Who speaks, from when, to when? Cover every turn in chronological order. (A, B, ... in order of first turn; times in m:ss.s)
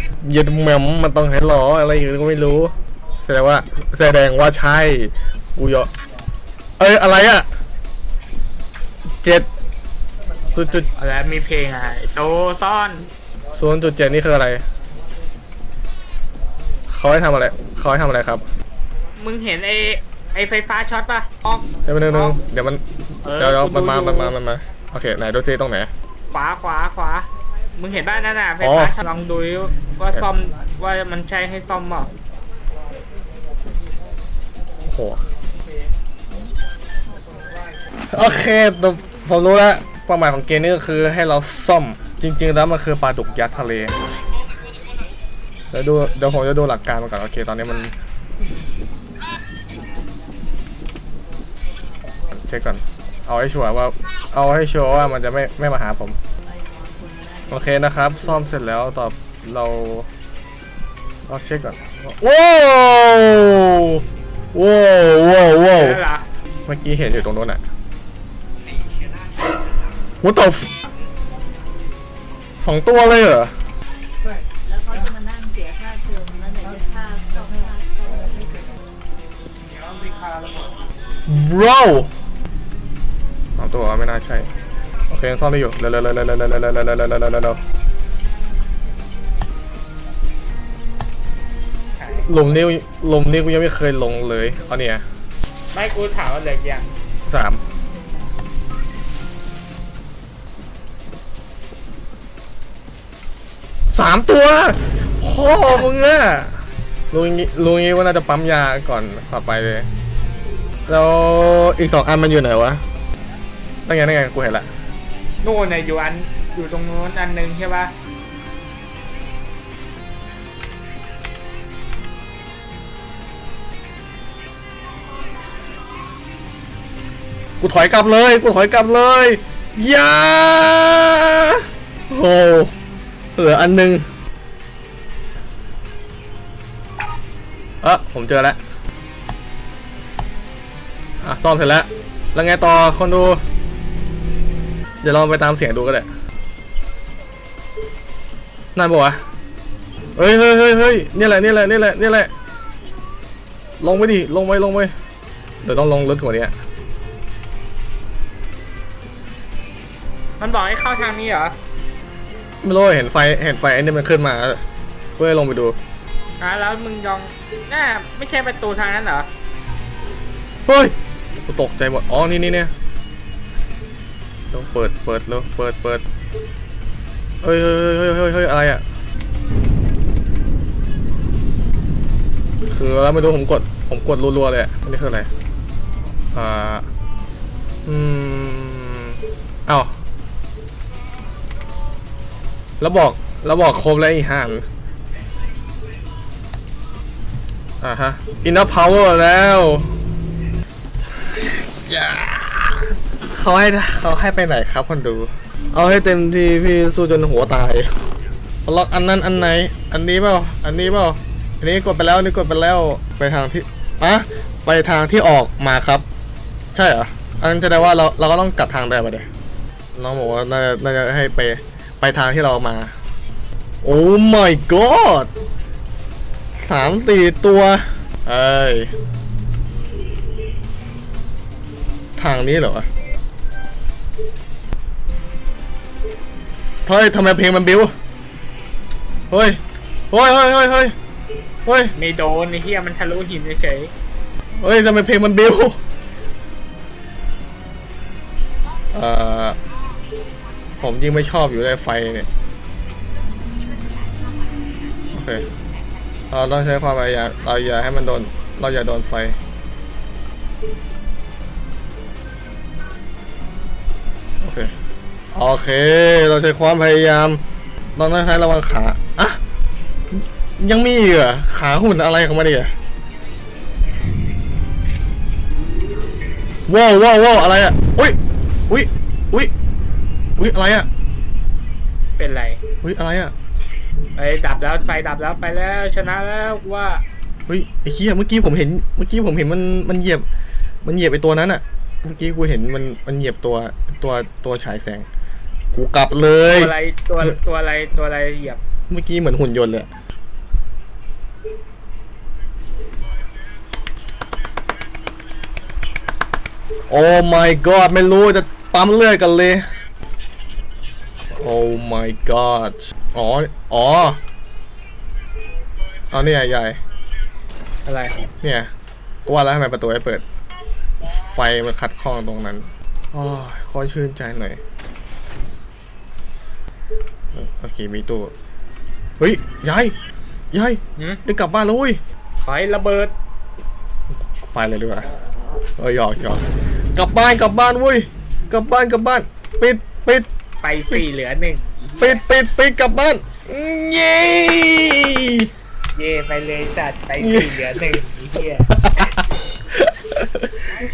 0:00.2-0:05.9 A
0:06.8-0:07.5 A
0:09.2-0:09.5 A
0:10.5-0:10.9 A
0:11.0-0:13.1 B
0:13.5-0:14.6 A
0:16.9-0:18.4 A
0:19.2-0:22.4 B
0:21.8-0:25.9 A
0:23.2-0:24.4 B
0:26.3-0:32.1 B
0:28.6-0:29.0 A
0:34.9-0:35.2 A
0:38.1-0:44.0 A
0:45.7-0:47.9 A
0:52.3-0:56.2 A
0:57.5-1:00.1 A
1:01.3-1:06.0 A
1:05.7-1:06.3 B
1:06.7-1:07.6 A
1:10.2-1:10.7 A
1:12.6-1:13.6 A
1:14.8-1:18.5 C
1:21.3-1:22.1 A
1:23.6-1:24.5 A
1:25.1-1:27.6 A
1:32.0-1:32.6 B
1:32.2-1:35.0 A
1:35.7-1:36.9 B
1:37.3-1:37.6 A
1:43.9-1:46.6 A
1:47.1-1:49.9 A
1:50.9-1:52.8 A
1:53.9-1:54.7 A
1:55.4-1:57.9 B
2:07.6-2:12.7 A
2:13.4-2:14.0 A
2:17.8-2:18.6 A
2:21.2-2:23.4 A
2:25.0-2:26.1 A
2:28.8-2:29.2 A
2:30.2-2:32.3 A
2:33.8-2:34.9 A
2:35.6-2:36.5 A
2:40.4-2:41.6 B
2:42.6-2:44.6 A
2:45.2-2:45.8 A
2:46.4-2:49.3 B
2:50.7-2:52.7 A
2:54.5-2:56.0 A
2:57.4-2:58.8 A
3:02.7-3:05.3 A
3:06.3-3:06.9 A
3:07.9-3:09.9 A
3:12.8-3:14.6 A
3:17.8-3:20.0 A
3:21.1-3:28.0 A
3:28.6-3:36.0 A
3:36.7-3:39.3 A
3:40.0-3:42.9 A
3:43.8-3:45.3 A
3:46.6-3:48.9 A
3:52.2-3:52.9 A
3:56.9-3:57.9 A
3:59.3-3:59.6 A
4:00.1-4:01.0 A
4:01.7-4:01.9 A
4:02.0-4:03.9 B
4:04.6-4:05.8 A
4:08.9-4:09.6 A
4:10.8-4:12.3 A
4:15.1-4:15.5 A
4:16.3-4:19.4 A
4:24.4-4:24.7 A
4:25.3-4:27.4 A
4:28.0-4:29.4 A
4:30.6-4:32.7 A
4:36.7-4:38.2 A
4:38.7-4:39.5 A
4:40.4-4:40.9 A
4:42.2-4:42.6 B
4:42.8-4:43.3 A
4:44.2-4:47.0 B
4:47.5-4:50.2 A
4:50.8-4:55.1 A
4:55.7-4:57.3 A
4:56.5-4:58.6 B
4:58.9-4:59.9 A
5:06.9-5:09.7 A
5:11.3-5:14.2 A
5:16.1-5:16.8 A
5:17.9-5:18.2 B
5:18.4-5:18.7 A
5:19.3-5:20.2 A
5:21.0-5:24.6 A
5:27.3-5:28.3 A
5:29.2-5:29.9 A
5:30.5-5:32.0 A
5:32.4-5:33.1 B
5:34.4-5:35.1 A
5:35.8-5:36.4 A
5:37.0-5:40.3 A
5:40.6-5:42.2 B
5:42.0-5:45.5 A
5:46.0-5:48.7 B
5:47.2-5:47.6 A
5:48.7-5:50.6 A